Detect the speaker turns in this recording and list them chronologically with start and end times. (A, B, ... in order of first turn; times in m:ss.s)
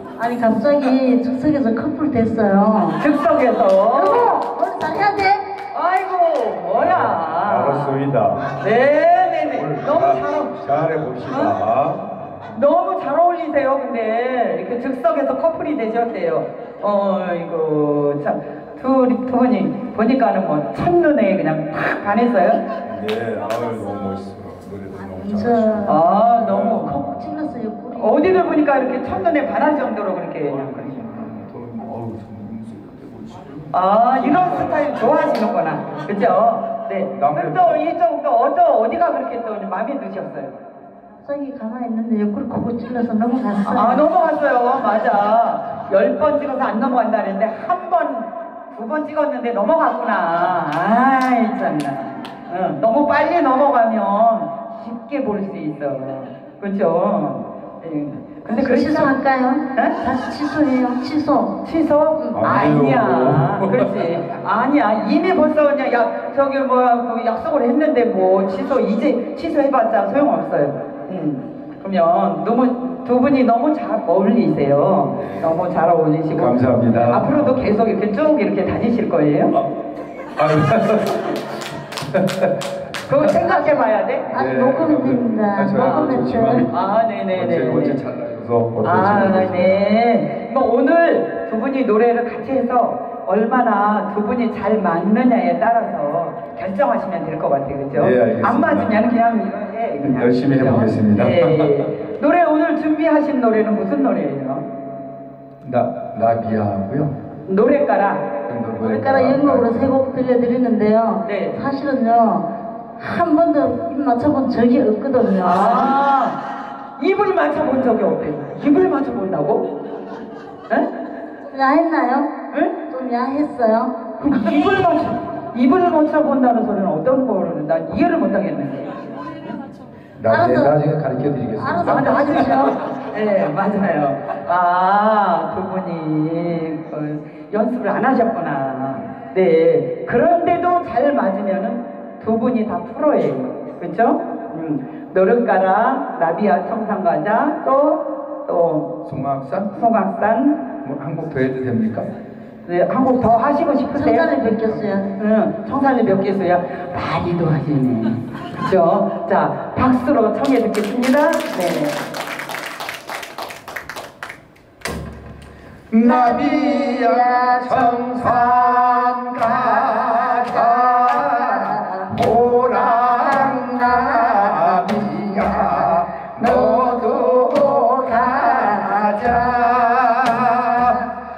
0:00.2-0:03.0 A
0:03.0-0:04.3 B
0:03.9-0:05.4 A
0:05.7-0:08.0 B
0:06.8-0:08.6 C
0:08.5-0:10.6 B
0:09.5-0:12.4 C
0:11.2-0:11.6 B
0:12.5-0:22.6 B
0:22.8-0:27.2 C
0:25.1-0:26.0 A
0:25.8-0:27.0 B
0:26.8-0:28.6 A
0:28.0-0:30.9 B
0:30.5-0:33.7 C
0:33.7-0:40.6 B
0:34.3-0:34.7 C
0:37.1-0:37.8 C
0:41.2-0:44.0 A
0:43.7-0:59.1 B
0:58.5-1:01.6 A
0:59.7-1:00.0 B
1:01.6-1:19.5 B
1:02.3-1:03.9 C
1:16.3-1:17.7 C
1:20.4-1:21.4 C
1:22.0-1:23.2 C
1:23.1-1:24.3 B
1:23.3-1:26.7 A
1:24.3-1:26.8 C
1:26.7-1:28.0 B
1:27.3-1:29.9 C
1:28.8-1:44.6 B
1:37.9-1:39.0 C
1:40.0-1:41.9 C
1:45.6-1:47.1 C
1:47.4-1:48.3 B
1:48.4-1:49.9 C
1:48.8-1:52.5 A
1:51.2-1:51.6 B
1:53.0-1:56.0 A
1:55.4-1:56.4 B
1:57.0-1:59.6 B
2:01.5-2:02.3 A
2:02.5-2:02.8 B
2:02.9-2:03.9 A
2:04.2-2:09.6 B
2:10.2-2:12.6 C
2:10.3-2:10.8 A
2:11.6-2:12.8 A
2:11.8-2:28.9 B
2:29.0-2:29.8 C
2:29.7-2:30.7 B
2:30.8-2:32.1 C
2:32.6-2:34.3 B
2:33.9-2:35.1 A
2:35.2-2:42.0 B
2:45.9-3:01.1 C
2:46.0-2:48.0 A
2:49.7-2:52.0 A
2:53.0-2:55.7 A
2:56.4-2:59.2 A